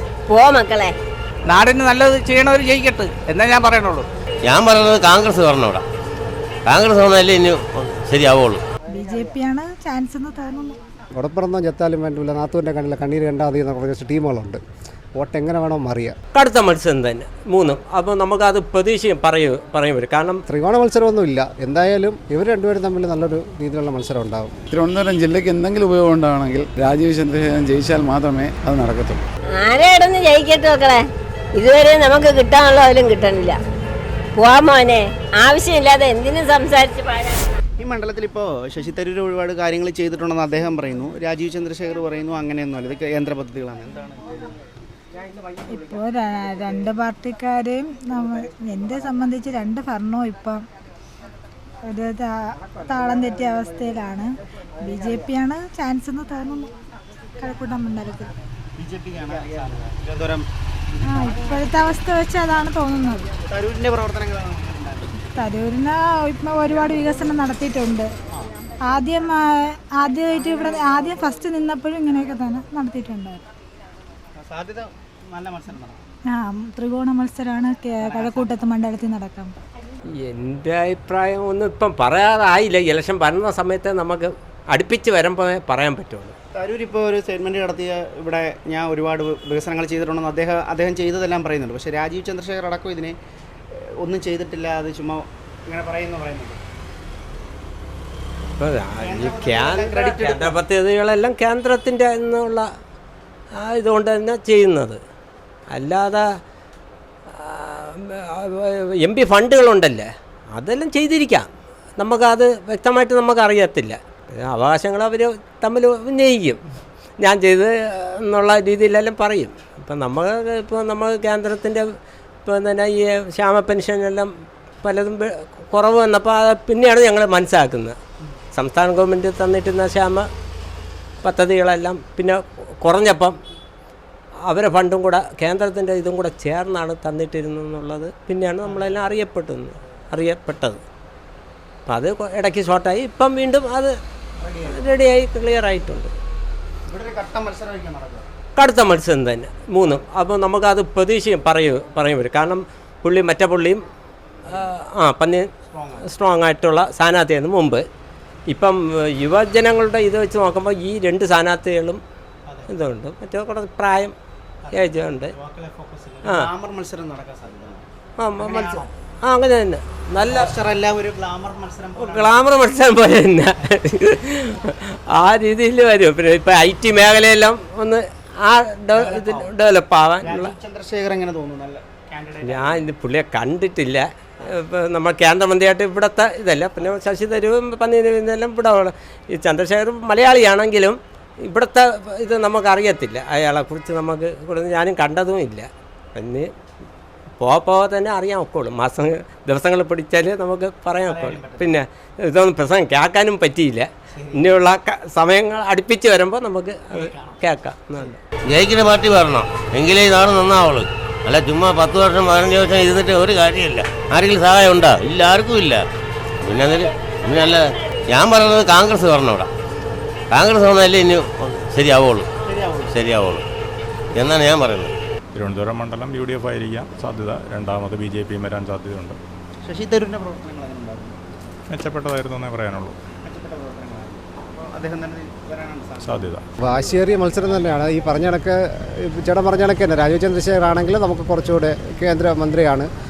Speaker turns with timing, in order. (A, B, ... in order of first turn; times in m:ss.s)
0:00.3-0:01.0 A
0:01.5-0:04.0 B
0:04.5-0:05.8 C
0:06.7-0:08.6 C
0:08.9-0:10.8 D
0:11.1-0:14.6 E
0:15.2-0:16.2 E
0:16.3-0:20.4 F
0:20.5-0:24.6 E
0:24.7-0:29.3 G
0:29.6-0:31.0 A
0:31.6-0:33.6 A
0:34.4-0:37.4 A
0:37.8-0:44.6 H
0:45.7-0:50.6 D
0:51.8-0:56.7 D
0:57.4-0:58.4 D
0:58.8-1:00.5 H
1:01.0-1:03.3 D
1:03.5-1:05.2 H
1:05.3-1:08.1 D
1:08.9-1:13.4 D
1:14.4-1:16.0 H
1:16.3-1:19.5 D
1:18.0-1:18.6 H
1:20.2-1:26.3 F
1:26.6-1:33.2 H
1:34.0-1:36.6 H
1:38.6-1:42.7 F
1:39.0-1:40.6 H
1:43.6-1:45.0 F
1:45.7-1:46.2 F
1:47.4-1:51.4 F
1:52.0-1:56.6 F
1:57.2-2:01.8 F
2:02.5-2:04.3 F
2:04.8-2:08.0 F
2:08.5-2:10.3 F
2:11.2-2:13.4 F
2:14.5-2:20.8 F
2:18.6-2:19.1 H
2:21.9-2:24.0 F
2:24.4-2:24.8 H
2:24.7-2:26.1 F
2:26.9-2:28.3 H
2:28.6-2:33.8 F
2:34.5-2:35.5 F
2:35.7-2:36.1 H
2:36.1-2:37.8 F
2:38.5-2:42.0 F
2:42.7-2:44.2 F
2:44.6-2:47.9 H
2:44.7-2:45.3 F
2:48.2-2:50.5 F
2:48.4-2:48.9 H
2:50.2-2:52.4 H
2:52.0-3:00.5 F
2:58.9-2:59.5 H
3:00.2-3:02.8 H
3:02.4-3:16.5 F
3:17.4-3:28.2 F
3:21.0-3:21.8 H
3:24.1-3:24.5 H
3:26.9-3:27.4 H
3:28.5-3:35.8 C
3:36.4-3:39.5 C
3:40.3-3:42.3 C
3:42.5-3:43.0 H
3:42.9-3:43.4 C
3:44.1-3:44.9 C
3:45.4-3:49.2 I
3:49.6-3:51.2 H
3:51.7-3:53.0 I
3:53.2-3:56.3 H
3:56.0-3:56.4 I
3:56.6-4:02.9 E